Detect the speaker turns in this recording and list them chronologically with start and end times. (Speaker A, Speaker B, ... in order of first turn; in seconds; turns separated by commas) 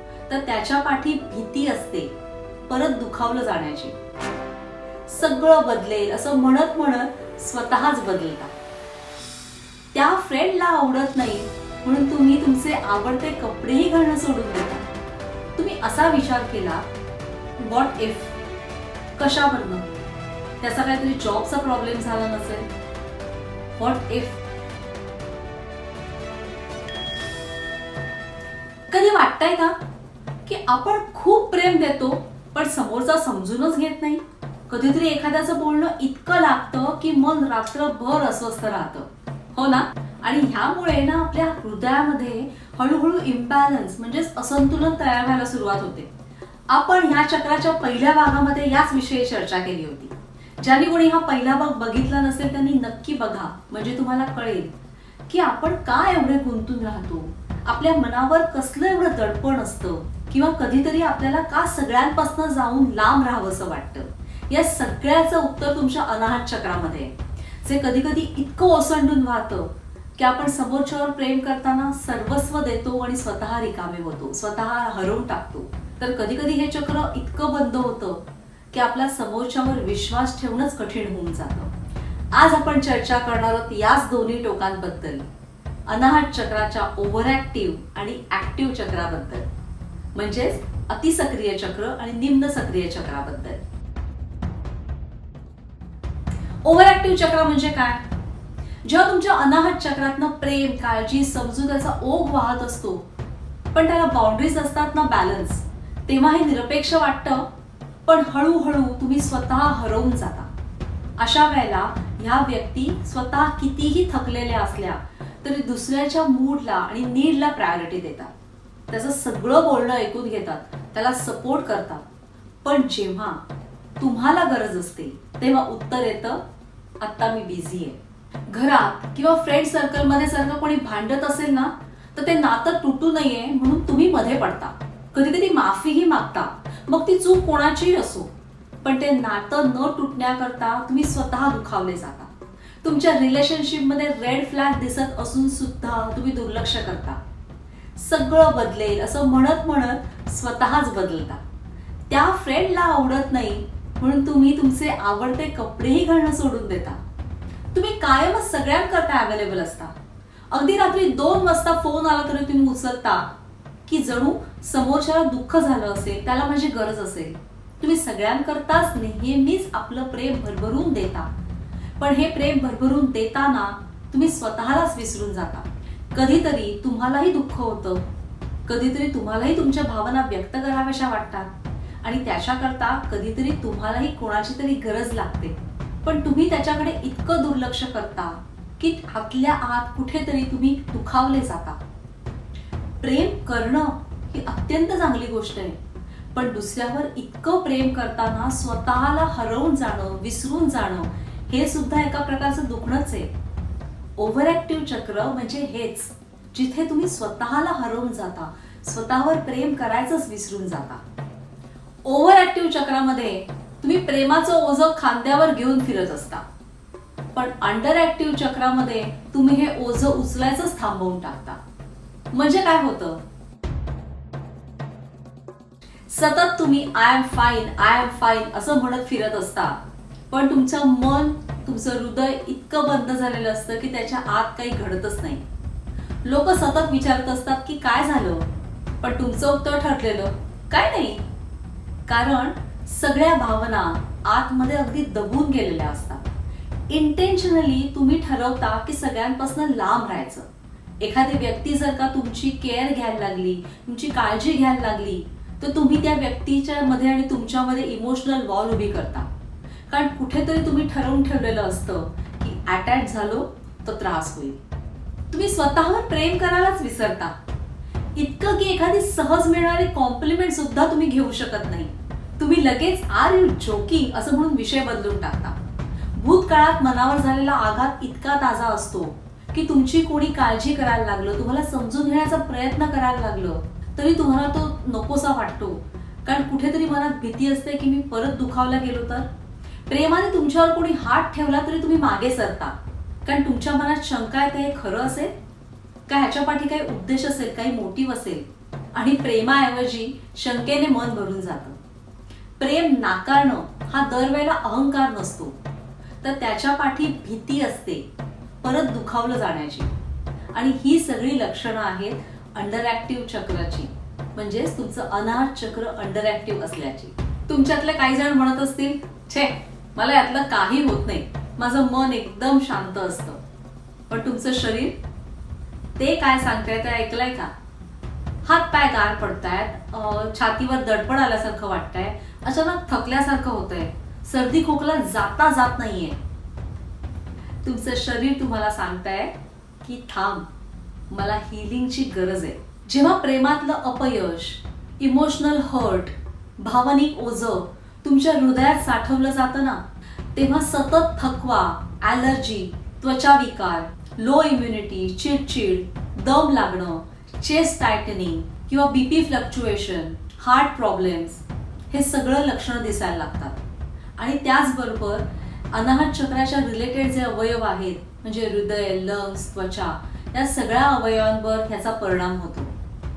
Speaker A: 0.3-2.1, Speaker A: 2.6-4.0, Speaker A: 5.1-8.5, Speaker A: 9.9-14.9, Speaker A: 15.6-16.9, Speaker A: 17.6-18.4, Speaker A: 19.2-19.9, Speaker A: 20.6-22.7, Speaker A: 23.8-24.4, Speaker A: 28.9-29.8, Speaker A: 30.4-46.1, Speaker A: 46.7-54.7, Speaker A: 55.3-81.7, Speaker A: 82.3-85.2, Speaker A: 85.9-89.5, Speaker A: 90.2-93.6, Speaker A: 96.6-98.0, Speaker A: 98.8-103.1, Speaker A: 103.7-107.5, Speaker A: 108.1-110.5, Speaker A: 111.2-118.3, Speaker A: 118.9-122.0, Speaker A: 122.6-123.4, Speaker A: 124.0-126.4, Speaker A: 127.0-138.3, Speaker A: 138.8-142.3, Speaker A: 142.8-147.2, Speaker A: 147.9-151.4, Speaker A: 152.1-157.0, Speaker A: 157.7-159.9, Speaker A: 160.5-163.3, Speaker A: 163.9-171.3, Speaker A: 172.0-178.1, Speaker A: 178.7-181.5, Speaker A: 182.0-191.8, Speaker A: 193.0-195.8, Speaker A: 196.3-203.3, Speaker A: 204.2-211.0, Speaker A: 212.0-216.4, Speaker A: 217.3-221.6, Speaker A: 222.3-223.2, Speaker A: 226.1-229.8, Speaker A: 230.3-235.4, Speaker A: 236.2-238.4, Speaker A: 239.0-241.2, Speaker A: 242.1-246.3, Speaker A: 246.9-250.5, Speaker A: 251.0-259.3, Speaker A: 259.9-264.6, Speaker A: 265.3-267.3, Speaker A: 268.1-275.6, Speaker A: 276.1-289.3, Speaker A: 289.9-295.3, Speaker A: 296.1-301.8, Speaker A: 302.6-305.6, Speaker A: 306.2-308.1, Speaker A: 308.6-309.9, Speaker A: 310.5-323.4, Speaker A: 324.1-325.0, Speaker A: 326.0-327.5, Speaker A: 328.4-336.2, Speaker A: 337.6-340.5, Speaker A: 341.1-349.8, Speaker A: 350.4-363.6, Speaker A: 364.2-372.8